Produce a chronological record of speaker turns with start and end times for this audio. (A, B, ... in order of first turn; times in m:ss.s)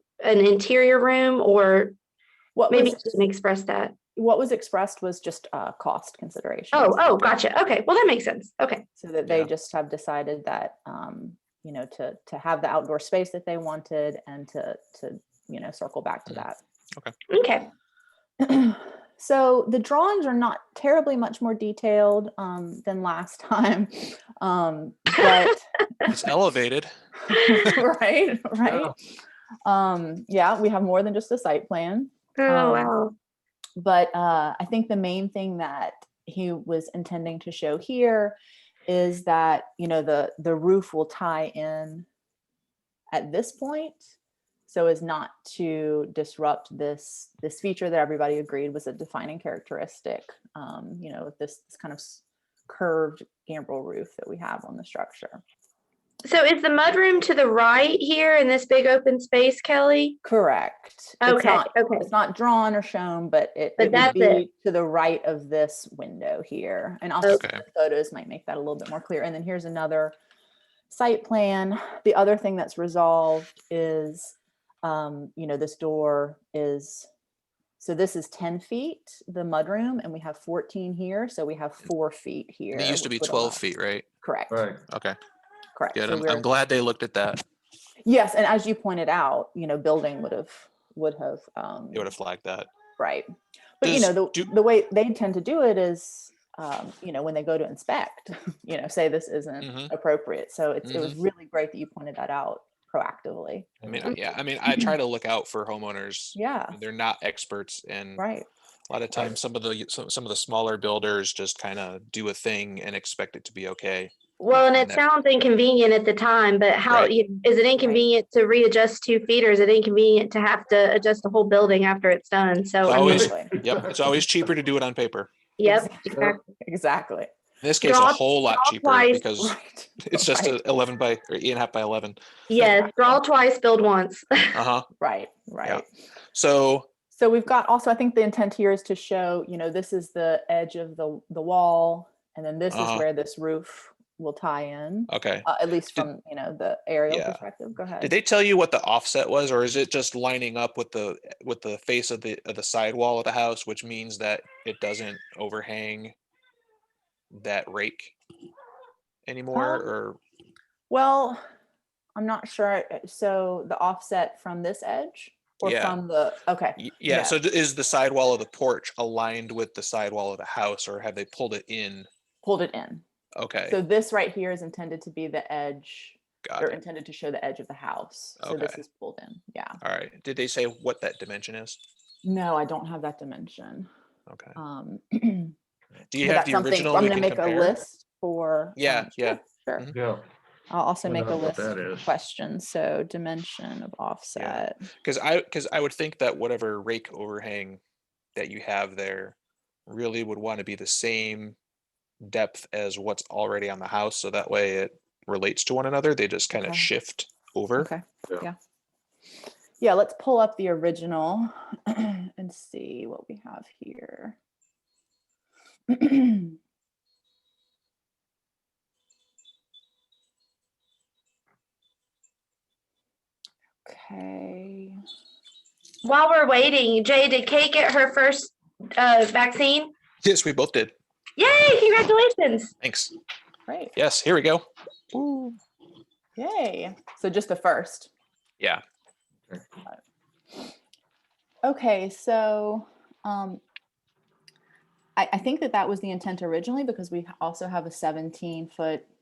0:00.2-0:01.9 A
0:02.5-0:03.2 B
0:02.7-0:03.9 A
0:04.2-0:07.4 B
0:06.7-0:08.8 A
0:09.0-0:16.6 B
0:17.3-0:17.7 A
0:18.4-0:25.6 B
0:26.1-0:26.9 C
0:27.3-0:29.0 B
0:28.7-0:28.9 D
0:29.6-0:32.9 B
0:32.4-0:33.1 A
0:33.8-0:42.0 B
0:43.1-0:44.1 B
0:44.7-0:55.4 B
0:56.2-1:00.2 A
1:00.2-1:10.2 B
1:01.2-1:02.1 A
1:03.8-1:04.4 A
1:07.3-1:07.6 C
1:10.9-1:17.1 B
1:17.8-1:23.6 B
1:22.7-1:24.0 C
1:24.2-1:24.6 B
1:24.5-1:24.8 D
1:24.9-1:25.2 C
1:25.8-1:26.4 B
1:25.9-1:27.4 C
1:28.0-1:32.1 B
1:31.9-1:32.7 C
1:33.0-1:33.3 B
1:33.8-1:44.9 B
1:33.8-1:34.5 C
1:39.6-1:39.9 C
1:40.8-1:41.2 C
1:43.8-1:44.1 D
1:43.8-1:48.2 C
1:46.3-1:46.8 B
1:48.2-1:48.5 B
1:48.9-1:54.1 C
1:54.5-2:03.2 A
1:54.7-1:55.0 C
1:56.8-1:57.1 C
1:57.8-1:58.1 B
2:02.8-2:05.3 C
2:02.9-2:03.5 B
2:03.0-2:04.2 D
2:05.6-2:06.4 A
2:05.6-2:07.3 B
2:07.6-2:12.2 C
2:07.8-2:09.2 A
2:09.3-2:10.6 B
2:12.5-2:14.5 A
2:12.6-2:13.2 B
2:14.5-2:14.9 C
2:15.0-2:15.8 B
2:16.3-2:16.9 C
2:17.1-2:28.1 B
2:22.7-2:23.0 C
2:25.1-2:26.1 C
2:27.1-2:27.4 C
2:28.0-2:36.1 C
2:37.3-2:38.1 C
2:39.2-2:40.2 C
2:39.5-2:39.8 B
2:40.9-2:41.4 B
2:42.1-2:47.4 B
2:45.6-2:46.0 C
2:46.8-2:52.1 C
2:52.4-2:53.0 B
2:53.3-2:53.8 C
2:53.7-2:59.8 B
2:56.4-2:56.8 C
2:58.4-2:58.8 C
2:59.8-3:01.8 C
3:02.2-3:03.9 B
3:04.3-3:04.6 C
3:04.6-3:05.5 B
3:06.1-3:07.8 C
3:06.2-3:09.9 B
3:08.8-3:10.0 C
3:09.9-3:10.2 D
3:10.7-3:14.8 B
3:11.0-3:12.1 D
3:14.4-3:17.8 C
3:18.4-3:19.4 C
3:19.9-3:21.6 C
3:22.2-3:27.9 C
3:26.6-3:26.9 B
3:27.8-3:28.5 B
3:29.8-3:34.4 B
3:35.9-3:36.5 B
3:43.8-3:45.0 B
3:46.0-3:49.9 A
3:50.2-3:50.9 C
3:51.4-3:52.7 A
3:52.8-3:53.1 C
3:53.7-3:53.9 B
3:54.0-3:54.6 C
3:55.1-3:55.6 B
3:56.4-3:58.1 B
4:01.6-4:03.6 B
4:05.2-4:09.1 B